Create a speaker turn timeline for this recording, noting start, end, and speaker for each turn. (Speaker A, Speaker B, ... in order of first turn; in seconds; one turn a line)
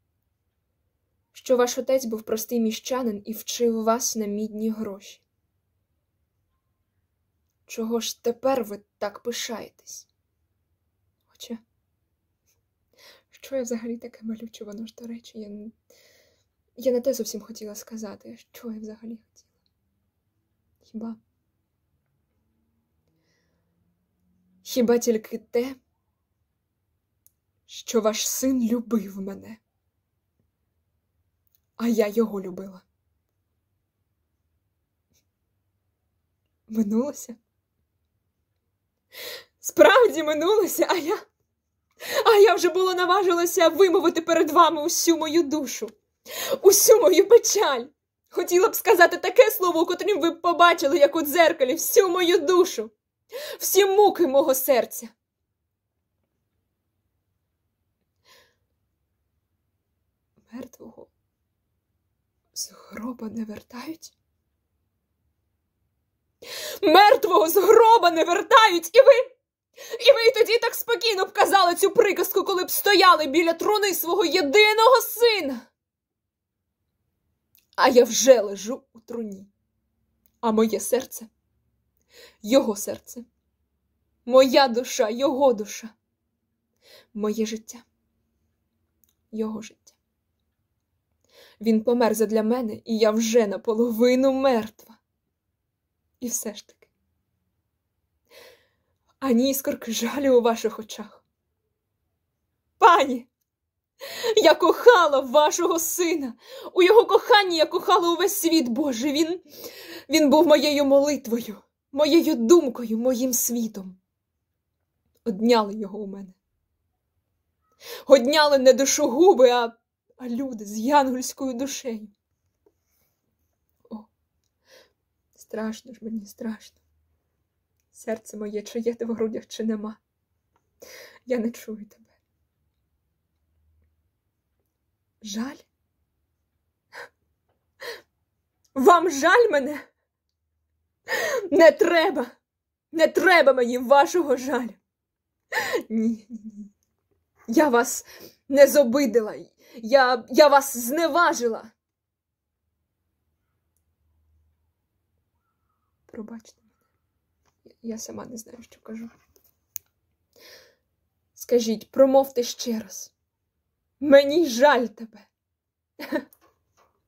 Speaker A: 1.3-5.2
Speaker A: 7.7-10.1
Speaker A: 11.3-11.6
Speaker A: 13.3-15.7
Speaker A: 16.8-19.5
Speaker A: 20.8-21.2
Speaker A: 24.6-25.8
Speaker A: 27.7-29.6
Speaker A: 31.8-32.8
Speaker A: 36.7-37.4
Speaker A: 39.6-41.2
Speaker A: 42.1-52.9
Speaker A: 53.5-55.1
Speaker A: 60.4-61.1
Speaker A: 62.5-64.1
Speaker A: 66.8-75.7
Speaker A: 77.8-79.5
Speaker A: 80.4-81.3
Speaker A: 82.4-83.2
Speaker A: 84.2-85.9
Speaker A: 87.1-87.8
Speaker A: 89.3-90.0
Speaker A: 91.6-95.0
Speaker A: 96.2-96.9
Speaker A: 99.2-101.2
Speaker A: 102.8-103.3
Speaker A: 104.2-109.4
Speaker A: 110.1-114.0
Speaker A: 115.2-116.4
Speaker A: 118.0-122.1
Speaker A: 125.3-126.8
Speaker A: 127.9-130.0
Speaker A: 131.2-132.1
Speaker A: 135.2-135.7
Speaker A: 138.7-139.8
Speaker A: 141.1-142.3
Speaker A: 142.9-144.8
Speaker A: 145.5-146.7
Speaker A: 147.5-151.7
Speaker A: 156.1-156.7
Speaker A: 157.8-159.1
Speaker A: 161.3-163.1
Speaker A: 164.0-165.3